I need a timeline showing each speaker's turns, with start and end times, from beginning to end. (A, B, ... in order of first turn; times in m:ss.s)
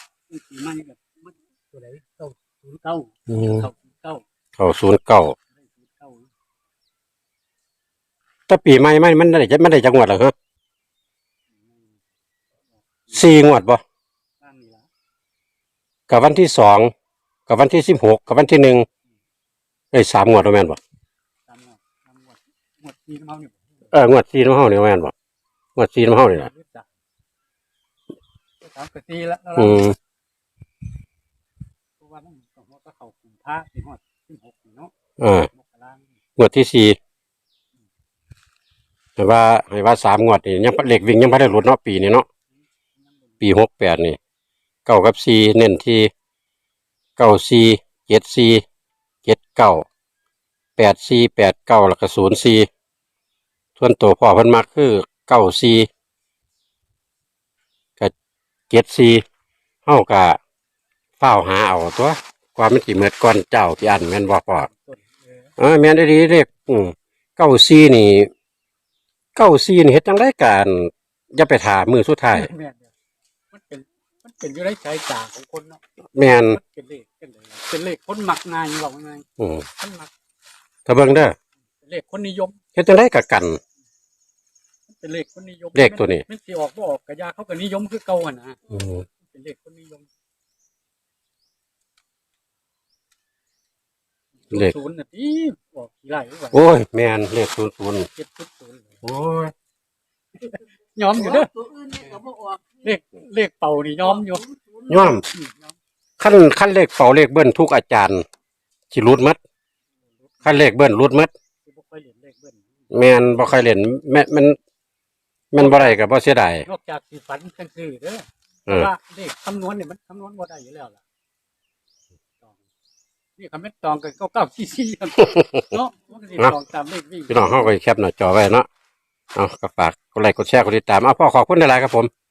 0:00.3-0:04.2 A
0:03.3-0:03.6 B
0:04.6-0:05.4 B
0:05.6-0:06.3 A
0:08.5-0:10.3 B
0:11.6-0:11.9 A
0:13.1-0:13.4 A
0:13.1-0:13.8 B
0:14.4-0:14.9 A
0:16.1-0:16.9 B
0:17.5-0:18.9 B
0:19.9-0:20.8 B
0:21.5-0:23.9 A
0:23.9-0:25.1 B
0:25.8-0:26.5 B
0:26.3-0:26.9 A
0:28.6-0:29.9 A
0:29.6-0:30.0 B
0:32.0-0:34.9 A
0:35.2-0:35.5 B
0:35.5-0:36.1 A
0:36.4-0:37.0 B
0:39.2-0:42.3 B
0:43.0-0:43.4 A
0:43.4-0:44.2 B
0:44.9-0:46.1 B
0:47.2-0:48.6 B
0:49.2-0:49.9 B
0:50.8-0:52.7 B
0:53.8-0:55.9 B
0:58.7-0:59.2 B
0:59.9-1:00.4 B
1:01.2-1:04.7 B
1:04.6-1:05.5 A
1:05.6-1:08.3 B
1:09.4-1:12.5 B
1:12.3-1:12.9 A
1:13.5-1:15.8 A
1:16.2-1:16.6 B
1:16.4-1:20.1 A
1:19.4-1:19.6 B
1:20.9-1:21.4 B
1:21.8-1:22.6 A
1:22.8-1:23.6 B
1:24.9-1:28.6 A
1:25.8-1:26.2 B
1:28.7-1:29.0 B
1:29.2-1:30.1 A
1:34.5-1:36.6 A
1:36.5-1:38.1 B
1:38.1-1:39.0 A
1:39.0-1:39.5 B
1:40.5-1:42.2 A
1:41.2-1:42.8 C
1:42.8-1:45.8 A
1:44.2-1:44.8 C
1:44.9-1:45.2 B
1:46.2-1:48.2 B
1:48.9-1:49.4 B
1:50.2-1:50.6 A
1:50.4-1:51.3 B
1:51.6-1:52.7 A
1:52.9-1:54.6 B
1:55.5-1:56.7 B
1:55.6-1:56.0 A
1:56.7-2:01.0 A
2:03.4-2:07.7 A
2:07.3-2:08.7 B
2:09.4-2:12.1 B